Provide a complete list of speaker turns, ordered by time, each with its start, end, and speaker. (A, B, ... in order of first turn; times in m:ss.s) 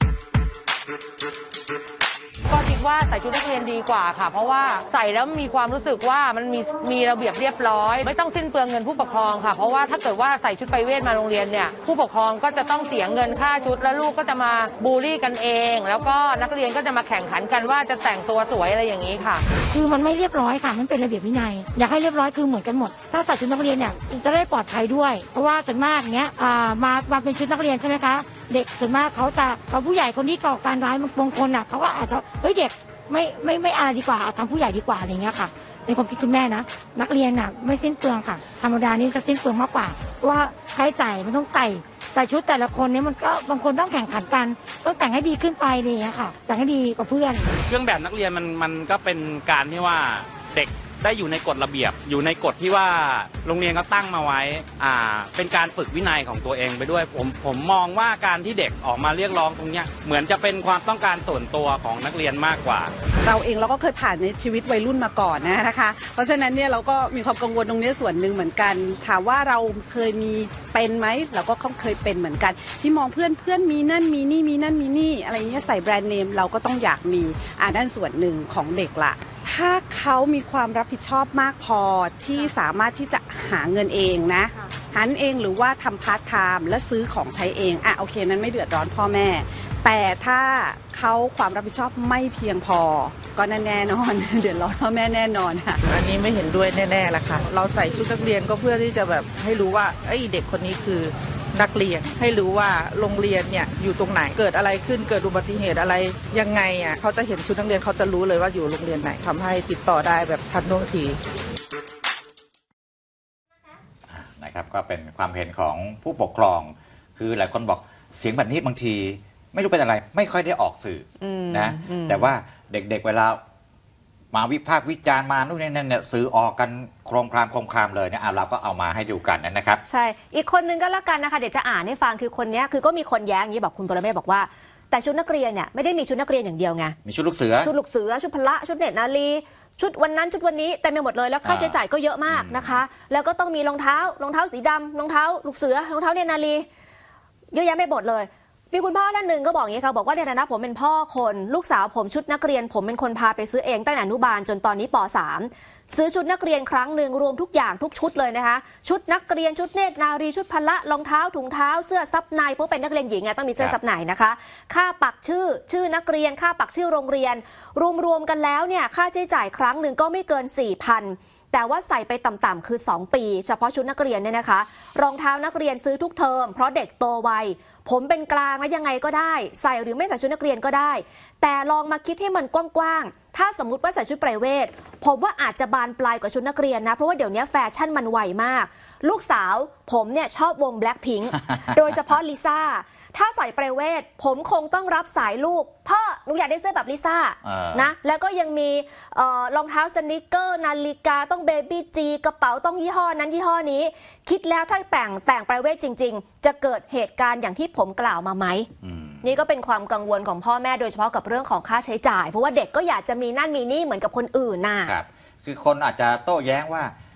0:02.5-0:19.4 A
0:19.6-0:47.5 B
0:47.6-1:02.9 C
1:03.2-1:35.8 D
1:35.9-1:51.2 E
1:54.1-2:03.4 F
2:01.2-2:02.3 G
2:04.3-2:09.8 F
2:09.9-2:17.0 G
2:17.0-2:17.7 F
2:17.6-2:26.6 G
2:21.4-2:21.8 F
2:22.3-2:22.8 F
2:27.5-3:28.7 G
3:17.4-3:17.9 F
3:28.8-3:29.2 F
3:29.2-3:34.9 G
3:34.9-3:36.9 F